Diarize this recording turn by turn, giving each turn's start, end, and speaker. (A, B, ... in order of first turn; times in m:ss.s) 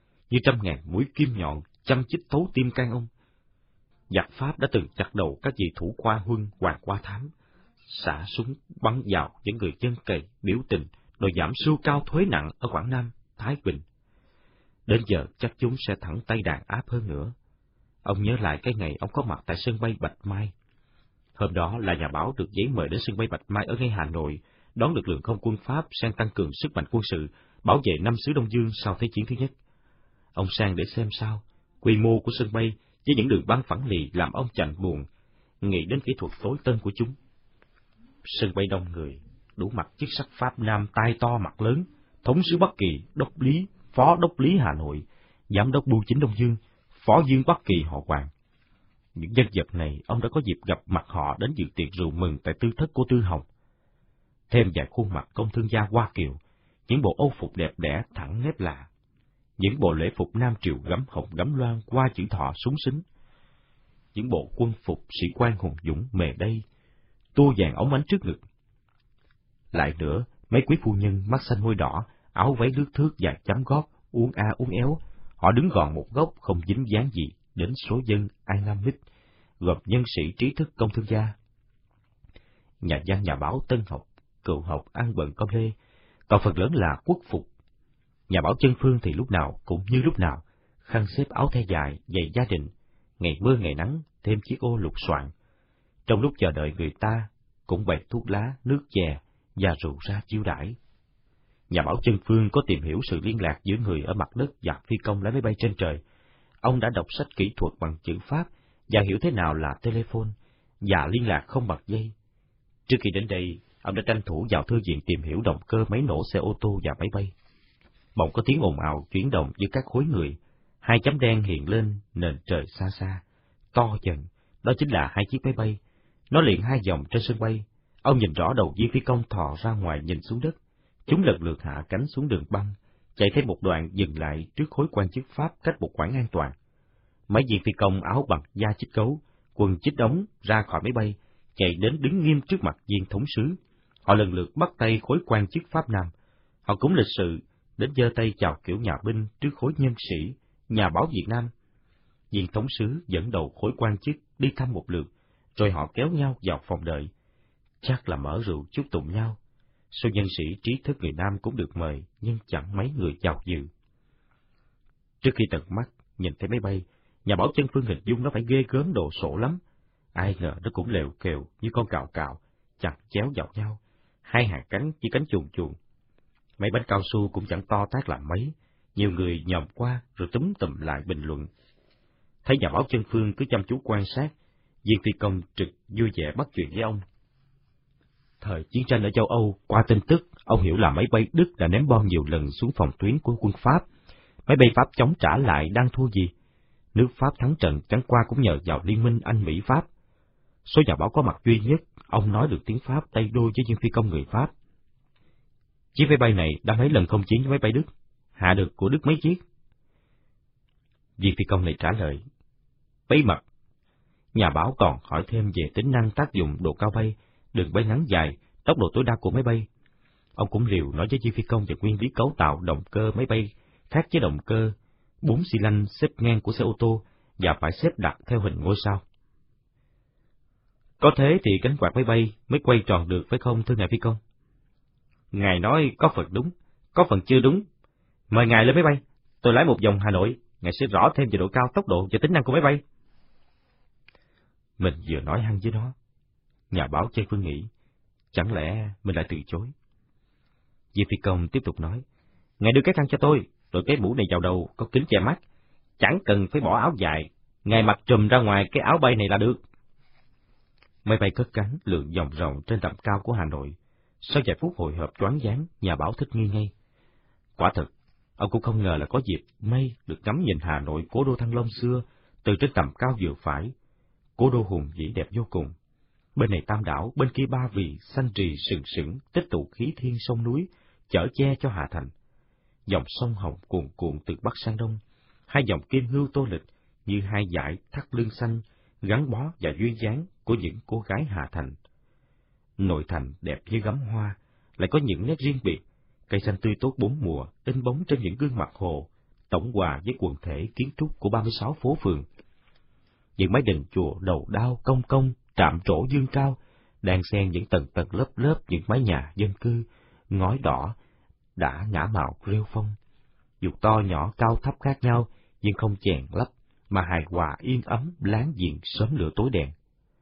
0:00.3-0:03.1 A
0:04.1-0:07.3 A
0:07.9-0:13.8 A
0:14.9-0:17.3 A
0:18.0-0:20.5 A
0:21.4-0:29.5 A
0:30.4-0:35.1 A
0:35.6-0:37.2 A
0:38.2-0:48.3 A
0:49.2-0:53.5 A
0:54.5-0:58.9 A
0:59.6-1:03.0 A
1:04.2-1:06.6 A
1:07.4-1:08.4 A
1:09.7-1:19.0 A
1:19.6-1:21.4 A
1:22.8-1:25.8 A
1:26.3-1:27.5 A
1:28.3-1:35.3 A
1:36.1-1:40.8 A
1:41.7-1:46.0 A
1:46.6-1:52.1 A
1:52.9-1:57.3 A
1:58.2-2:03.2 A
2:03.7-2:05.8 A
2:06.3-2:16.6 A
2:17.3-2:26.1 A
2:26.6-2:31.5 A
2:32.3-2:37.1 A
2:37.8-2:39.4 A
2:39.9-2:43.7 A
2:45.2-2:49.6 A
2:50.2-2:55.8 A
2:56.6-3:01.5 A
3:02.4-3:04.3 A
3:04.8-3:07.0 A
3:08.4-3:13.8 A
3:14.5-3:16.3 A
3:16.9-3:19.9 A
3:20.6-3:24.5 A
3:25.9-3:29.4 A
3:31.2-3:32.2 A
3:33.1-3:33.4 A
3:34.3-3:39.7 A
3:40.4-3:49.0 A
3:51.0-3:54.2 A
3:55.3-3:57.6 A
3:58.3-4:02.8 A
4:04.8-4:05.9 A
4:06.7-4:07.7 A
4:08.3-4:09.7 A
4:10.9-4:12.0 A
4:12.6-4:15.4 A
4:16.0-4:19.6 A
4:21.0-4:26.7 A
4:27.6-4:33.7 A
4:34.4-4:35.8 A
4:36.4-4:42.1 A
4:42.9-4:51.8 A
4:52.8-5:02.3 A
5:03.4-5:11.0 A
5:11.6-5:13.0 A
5:13.6-5:19.7 A